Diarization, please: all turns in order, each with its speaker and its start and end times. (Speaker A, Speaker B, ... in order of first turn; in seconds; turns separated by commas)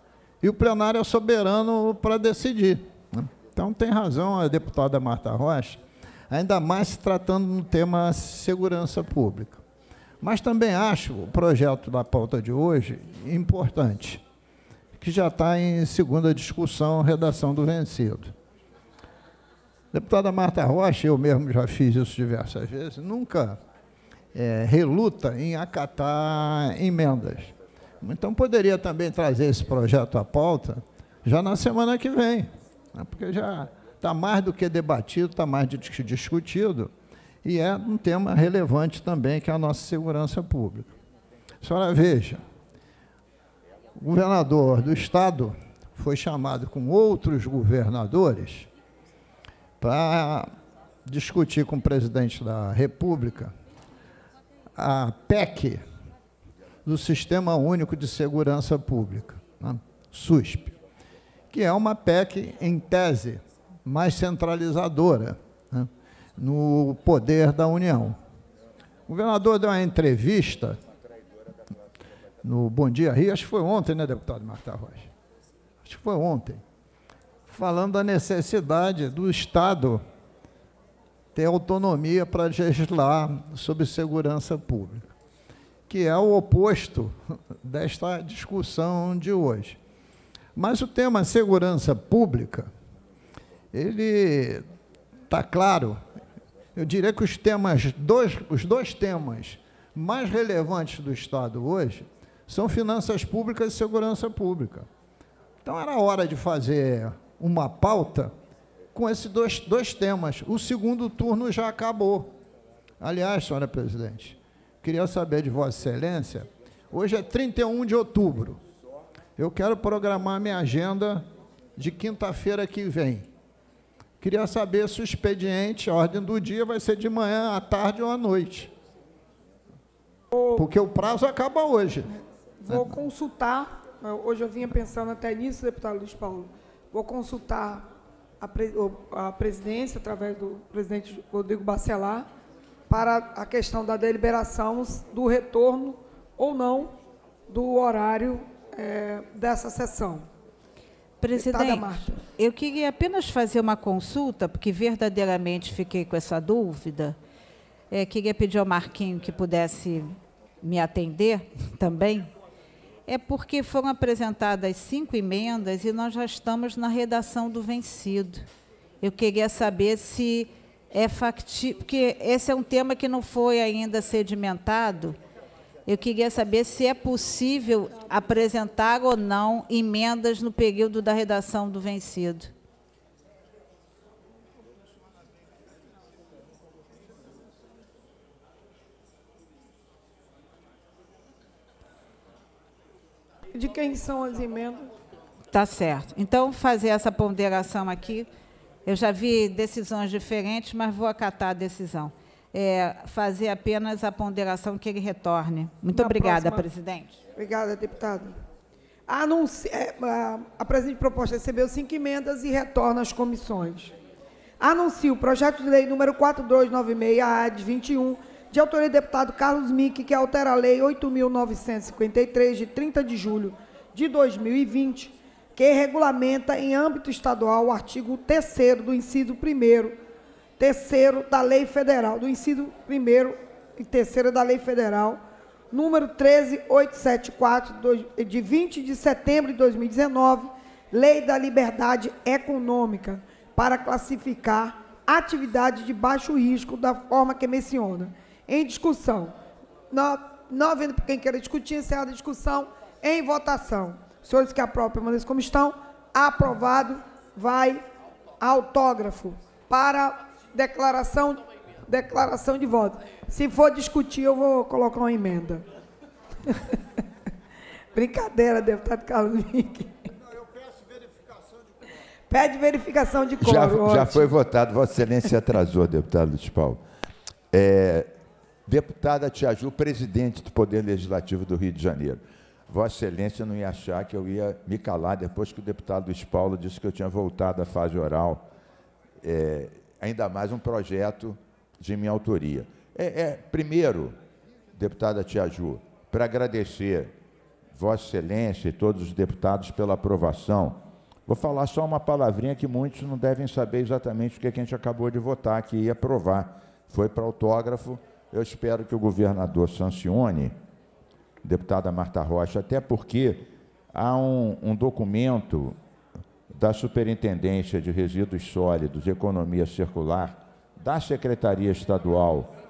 Speaker A: 0.4-9.6, Speaker A: 10.2-14.2, Speaker A: 15.0-18.4, Speaker A: 19.9-23.6, Speaker A: 24.3-36.9, Speaker A: 37.4-41.0, Speaker A: 41.6-42.4, Speaker A: 44.0-48.7, Speaker A: 49.8-50.5, Speaker A: 51.0-53.5, Speaker A: 54.8-55.8, Speaker A: 56.9-60.8, Speaker A: 61.5-68.2, Speaker A: 69.1-70.8, Speaker A: 72.4-75.1, Speaker A: 75.8-76.6, Speaker A: 77.5-80.0, Speaker A: 81.3-85.1, Speaker A: 85.9-89.8, Speaker A: 90.5-92.7, Speaker A: 93.7-94.6, Speaker A: 95.3-96.0, Speaker A: 96.8-104.9, Speaker A: 105.6-108.3, Speaker A: 108.9-112.3, Speaker A: 113.0-118.6, Speaker A: 119.4-123.3, Speaker A: 124.2-128.7, Speaker B: 130.3-130.6, Speaker A: 130.6-132.2, Speaker B: 132.6-137.9, Speaker A: 132.7-133.0, Speaker B: 138.4-142.3, Speaker B: 142.9-147.0, Speaker B: 147.5-150.3, Speaker C: 151.2-157.2, Speaker B: 151.3-152.2, Speaker C: 157.9-162.3, Speaker C: 163.1-168.5, Speaker C: 169.0-175.2, Speaker C: 175.9-182.5, Speaker B: 193.5-194.9, Speaker C: 195.5-198.3, Speaker C: 198.8-207.2, Speaker B: 205.9-206.7, Speaker B: 207.4-208.4, Speaker B: 209.1-213.9, Speaker B: 214.6-230.0, Speaker B: 230.6-249.3, Speaker B: 249.9-257.9, Speaker B: 258.4-265.6, Speaker B: 266.4-266.8, Speaker B: 267.9-270.1, Speaker B: 272.3-274.3, Speaker D: 273.4-276.8, Speaker D: 277.5-278.1, Speaker D: 278.7-288.5, Speaker D: 289.2-294.2, Speaker D: 294.7-297.1, Speaker D: 297.8-310.6, Speaker D: 311.4-315.8, Speaker D: 316.5-322.5